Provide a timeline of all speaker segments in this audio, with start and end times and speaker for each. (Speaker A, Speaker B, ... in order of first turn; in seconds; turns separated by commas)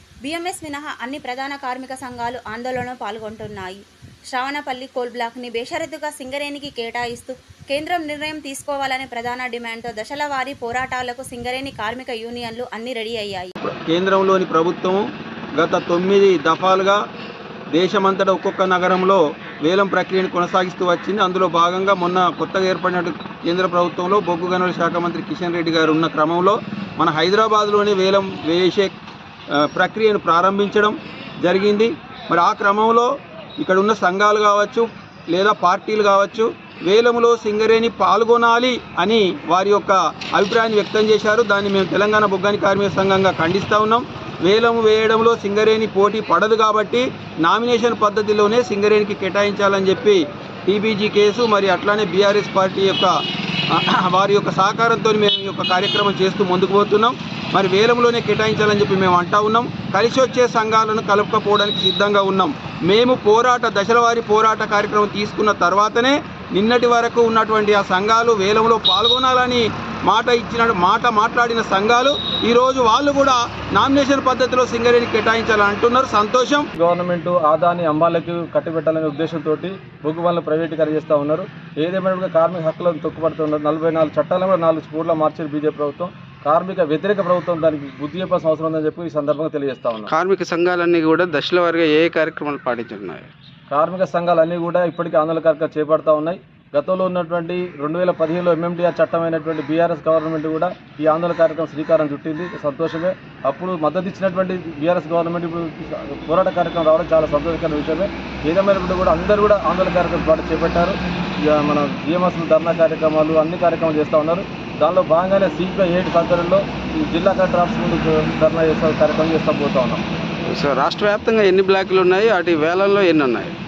Speaker A: 0.2-13.5, Speaker B: 13.6-17.0, Speaker B: 17.7-28.9, Speaker B: 29.5-53.2, Speaker B: 53.7-76.7, Speaker C: 76.8-90.1, Speaker D: 90.1-93.3, Speaker C: 93.7-111.0, Speaker C: 111.5-120.0, Speaker D: 120.5-123.5